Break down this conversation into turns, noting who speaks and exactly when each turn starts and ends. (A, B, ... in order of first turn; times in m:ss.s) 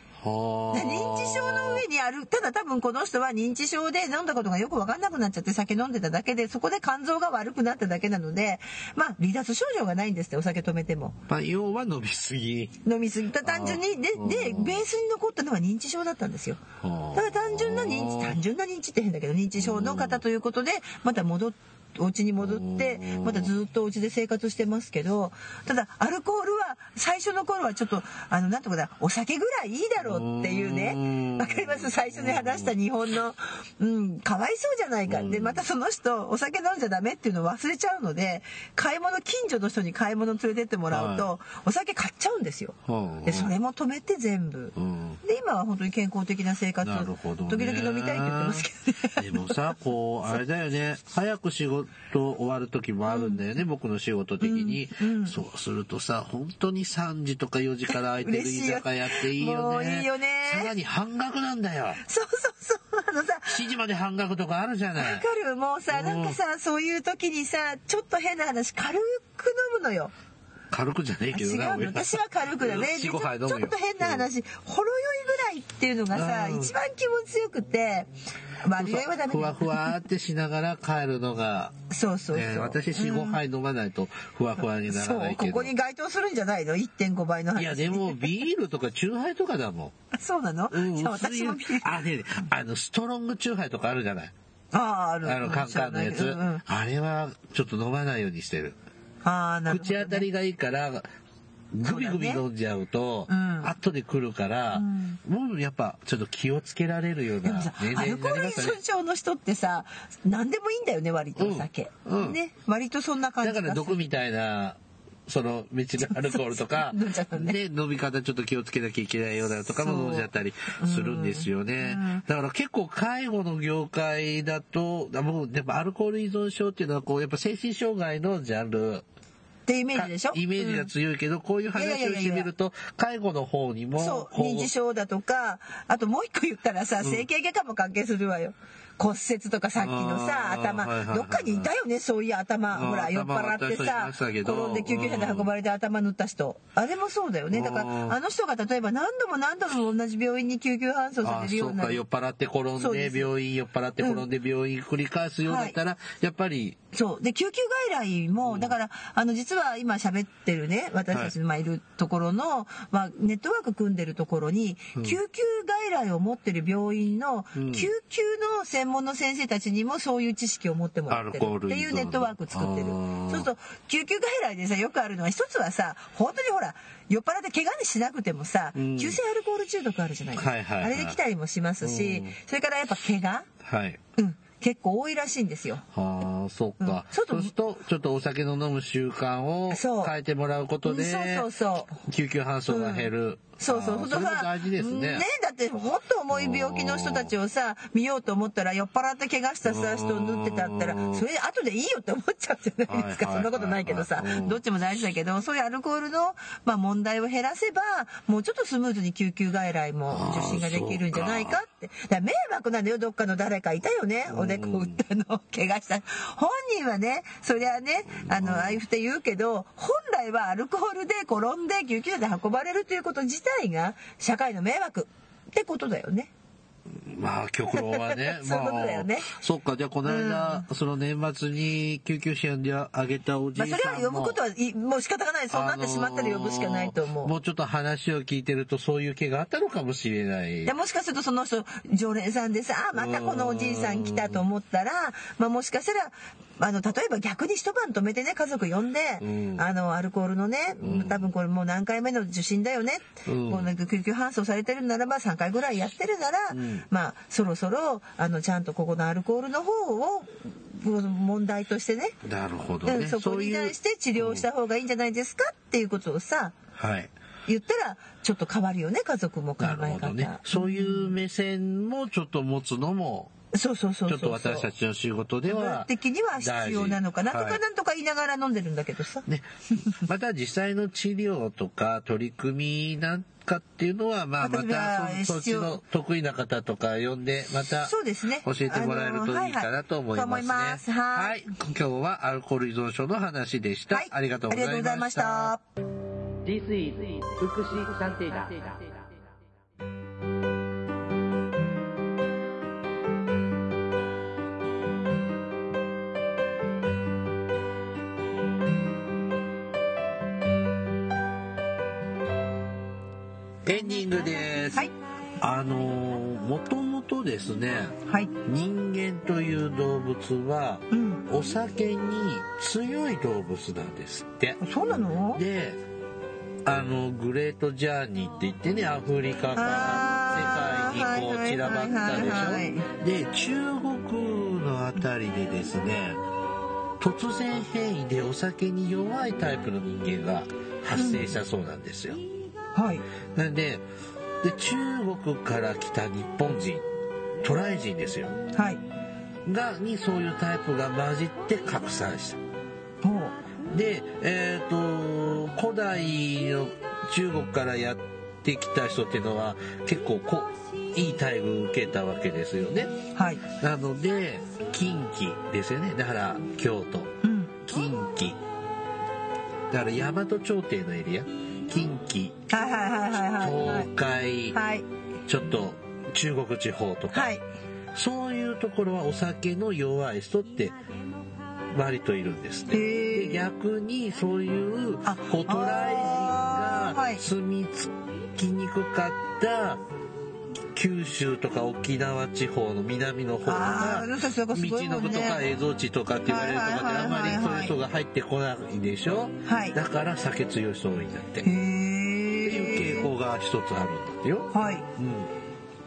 0:00.2-0:01.8 A
0:00.7-0:11.2 B
0:11.3-0:12.8 A
0:12.8-0:16.6 B
0:13.4-0:14.8 A
0:16.8-0:18.4 A
0:17.1-0:49.7 B
0:19.6-0:20.2 A
0:22.4-0:23.5 A
0:30.0-0:32.7 A
0:35.1-0:35.6 A
0:40.9-0:41.3 A
0:42.9-0:43.5 A
0:44.8-0:45.2 A
0:46.8-1:02.0 A
0:53.1-0:53.4 B
0:54.4-0:55.4 B
0:57.9-1:00.7 B
1:02.0-1:03.7 B
1:03.5-1:05.2 A
1:05.0-1:10.1 B
1:05.9-1:06.4 A
1:10.7-1:14.2 A
1:11.3-1:18.1 B
1:16.1-1:16.7 A
1:18.6-1:20.0 B
1:18.8-1:21.7 A
1:21.9-1:23.4 B
1:22.3-1:25.7 A
1:24.9-1:28.3 B
1:27.6-1:29.9 A
1:30.1-1:32.0 B
1:30.7-1:34.3 A
1:34.7-1:36.6 B
1:35.2-1:38.8 A
1:39.2-1:40.2 B
1:39.7-1:41.1 A
1:41.7-1:48.8 A
1:41.8-1:42.4 B
1:43.3-1:43.7 B
1:44.7-1:45.2 B
1:47.4-1:53.9 B
1:51.4-1:52.4 A
1:53.4-2:09.0 A
1:56.0-1:57.6 B
1:59.8-2:02.2 B
2:09.7-2:10.9 B
2:09.9-2:14.7 A
2:11.7-2:12.5 B
2:14.0-2:32.0 B
2:17.0-2:17.2 A
2:19.8-2:21.7 A
2:22.7-2:25.5 A
2:27.5-2:28.2 A
2:31.2-2:36.8 A
2:32.8-2:33.3 B
2:34.0-2:34.2 B
2:35.4-2:35.8 B
2:36.9-3:03.5 B
2:38.4-2:38.7 A
2:47.5-2:47.9 A
2:51.1-2:53.5 A
2:58.8-2:59.2 A
3:00.4-3:01.2 A
3:01.8-3:02.4 A
3:03.6-3:04.0 A
3:04.2-3:05.8 B
3:05.9-3:15.3 A
3:06.8-3:07.5 B
3:09.7-3:10.1 B
3:10.8-3:12.0 B
3:12.7-3:46.3 B
3:16.3-3:17.3 A
3:19.6-3:21.2 A
3:22.9-3:24.6 A
3:30.1-3:31.6 A
3:34.3-3:35.0 A
3:38.1-3:38.8 A
3:47.0-3:54.4 A
3:47.7-3:49.3 B
3:50.0-3:50.6 B
3:53.6-3:57.3 B
3:55.5-4:00.7 A
4:00.6-4:22.1 B
4:02.9-4:04.4 A
4:09.2-4:09.7 A
4:10.8-4:11.3 A
4:13.2-4:13.7 A
4:16.5-4:16.8 A
4:22.2-4:24.4 A
4:22.8-4:26.6 B
4:26.8-4:27.1 A
4:27.4-4:31.1 B
4:29.6-4:33.3 A
4:33.5-4:34.7 B
4:34.1-4:37.6 A
4:35.4-4:40.0 B
4:39.3-4:55.6 A
4:44.4-4:45.8 B
4:47.8-4:51.3 B
4:53.9-4:55.6 B
4:56.4-4:59.0 C
5:13.6-5:14.9 A
5:15.4-5:24.6 A
5:18.0-5:18.3 B
5:20.9-5:21.2 B
5:24.6-5:25.4 B
5:25.3-5:25.8 A
5:26.6-5:36.2 A
5:29.5-5:32.9 B
5:37.0-5:42.2 A
5:40.9-5:41.2 B
5:42.7-5:43.0 B
5:43.3-5:43.8 A
5:44.4-5:46.8 A
5:47.4-5:48.4 A
5:48.5-5:48.8 B
5:49.4-5:52.4 A
5:53.0-5:53.4 B
5:53.7-6:03.0 A
6:03.1-6:03.4 B
6:03.5-6:08.4 A
6:07.2-6:07.6 B
6:09.7-6:12.5 A
6:12.5-6:13.9 B
6:13.1-6:14.6 A
6:14.5-6:14.9 B
6:15.3-6:17.3 A
6:17.1-6:17.4 B
6:17.9-6:20.8 A
6:21.7-6:29.8 A
6:22.7-6:23.4 B
6:25.0-6:27.2 B
6:30.7-6:41.5 A
6:33.4-6:35.4 B
6:36.2-6:37.8 B
6:39.4-6:39.8 B
6:41.4-6:43.1 B
6:42.4-6:45.3 A
6:44.5-6:44.9 B